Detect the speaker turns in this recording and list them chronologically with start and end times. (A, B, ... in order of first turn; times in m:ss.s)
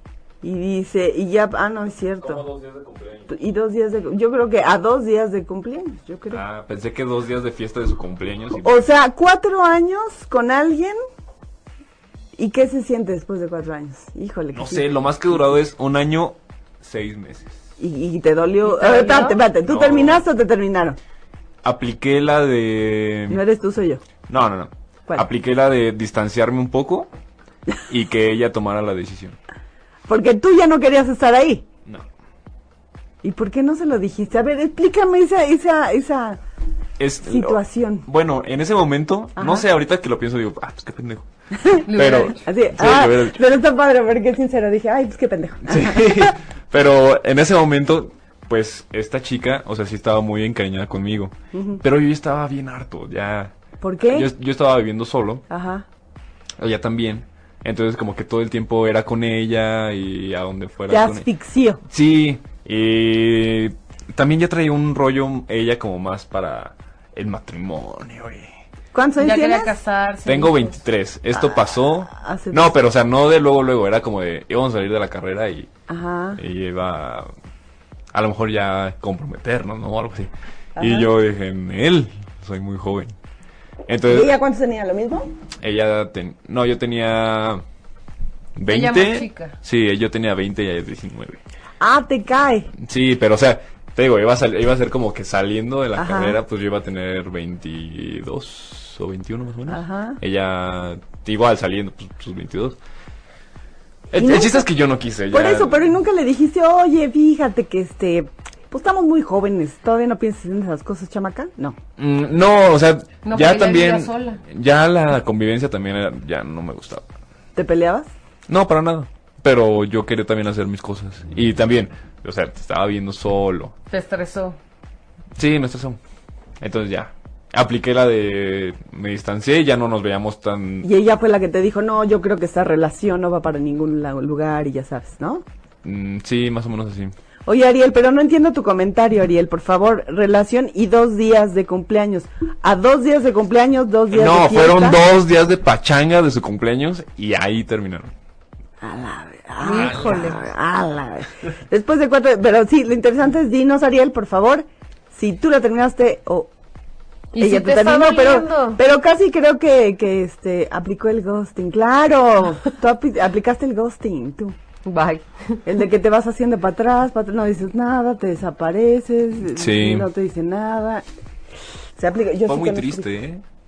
0:00.4-0:02.4 A
0:02.2-0:03.3 B
0:03.3-0:06.4 A
0:06.3-0:08.8 B
0:08.6-0:11.0 A
0:12.4-0:14.8 A
0:14.5-0:17.6 B
0:17.8-0:21.0 A
0:18.6-0:19.4 C
0:19.6-0:20.2 B
0:21.6-0:23.4 B
0:23.3-0:24.0 A
0:24.3-0:27.1 B
0:27.9-0:29.4 B
0:30.1-0:31.6 A
0:33.2-0:36.4 A
0:37.0-0:41.3 B
0:37.2-0:38.0 A
0:39.4-0:39.6 A
0:41.5-0:46.3 A
0:41.8-0:42.4 C
0:41.9-0:43.4 B
0:45.6-0:53.5 B
0:51.5-0:51.8 A
0:53.8-0:54.3 A
0:54.1-0:55.4 B
0:55.5-0:55.8 A
0:56.6-1:01.2 B
1:00.9-1:01.8 A
1:01.9-1:08.5 B
1:08.9-1:09.7 A
1:09.2-1:10.8 C
1:10.2-1:15.7 B
1:11.3-1:12.8 A
1:15.9-1:16.4 A
1:16.4-1:17.3 B
1:18.1-1:23.1 B
1:20.8-1:21.1 A
1:23.9-1:24.3 B
1:24.1-1:25.3 A
1:25.6-1:27.6 B
1:28.6-1:31.4 B
1:28.7-1:29.6 C
1:31.8-1:32.7 A
1:32.8-1:42.8 B
1:36.0-1:36.4 A
1:39.7-1:40.2 A
1:44.1-1:45.9 B
1:44.2-1:44.6 A
1:45.3-1:51.8 A
1:52.0-1:57.0 B
1:53.2-1:54.4 C
1:57.5-1:58.1 A
1:58.5-2:03.7 B
2:03.9-2:04.6 C
2:05.4-2:06.0 B
2:06.6-2:10.9 B
2:10.8-2:15.4 A
2:15.8-2:17.1 B
2:17.4-2:25.0 A
2:24.1-2:28.1 B
2:28.8-2:36.5 A
2:29.6-2:30.4 C
2:29.7-2:30.3 B
2:37.3-2:38.8 C
2:37.4-2:44.6 A
2:44.8-2:45.6 C
2:45.6-2:51.0 A
2:49.5-2:50.1 B
2:52.0-2:53.1 A
2:52.4-2:53.4 B